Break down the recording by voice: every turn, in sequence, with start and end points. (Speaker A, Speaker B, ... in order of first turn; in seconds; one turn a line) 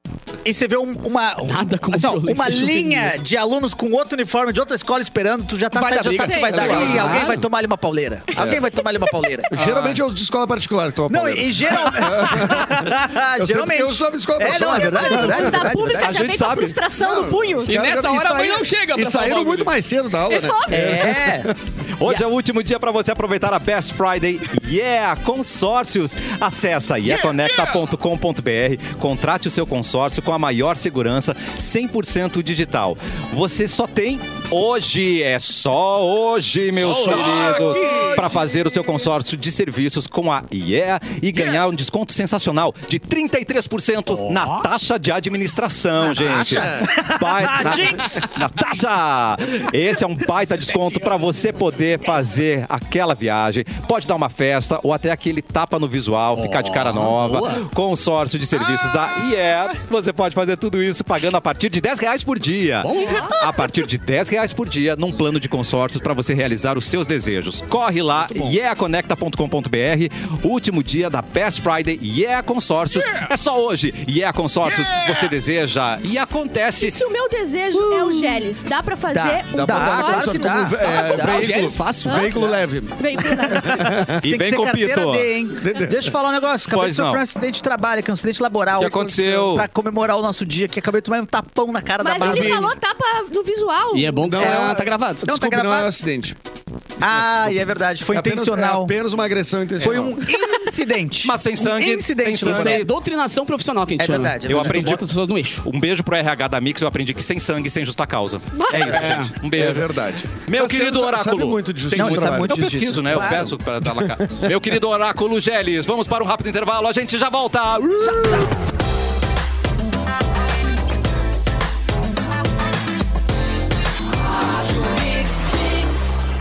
Speaker A: 0.4-9.6
Speaker B: 1.4-3.2
Speaker B: 5.7-7.4
Speaker C: 6.1-6.9
Speaker D: 6.5-7.4
Speaker D: 8.4-8.7
Speaker D: 9.5-15.8
Speaker A: 11.1-16.3
Speaker C: 14.5-17.7
Speaker E: 16.0-16.8
Speaker D: 17.0-21.6
Speaker B: 17.6-19.8
Speaker C: 20.3-21.0
Speaker A: 20.7-21.5
Speaker E: 22.0-77.0
Speaker B: 27.4-27.8
Speaker D: 36.8-38.4
Speaker A: 46.0-48.3
Speaker D: 46.2-46.9
Speaker B: 56.4-57.7
Speaker B: 62.8-63.4
Speaker C: 63.0-63.5
Speaker A: 74.9-75.2
Speaker C: 76.8-80.7
Speaker A: 77.8-78.4
Speaker A: 79.1-81.5
Speaker D: 79.5-84.3
Speaker B: 81.0-82.3
Speaker C: 82.1-82.3
Speaker C: 83.0-83.8
Speaker A: 83.6-92.8
Speaker E: 84.2-85.3
Speaker D: 85.6-86.1
Speaker E: 86.7-87.2
Speaker E: 88.8-89.7
Speaker D: 88.8-89.5
Speaker C: 92.0-94.4
Speaker B: 92.2-92.7
Speaker B: 93.9-95.3
Speaker D: 94.2-96.4
Speaker A: 94.4-94.7
Speaker A: 95.2-95.9
Speaker A: 97.0-98.9
Speaker D: 97.1-100.2
Speaker A: 99.8-102.8
Speaker E: 101.2-102.9
Speaker B: 102.4-105.7
Speaker A: 104.0-105.0
Speaker E: 104.5-105.1
Speaker E: 105.6-109.9
Speaker C: 108.5-109.0
Speaker B: 108.8-109.3
Speaker D: 109.3-114.5
Speaker E: 110.4-118.4
Speaker A: 111.9-113.5
Speaker A: 118.0-118.5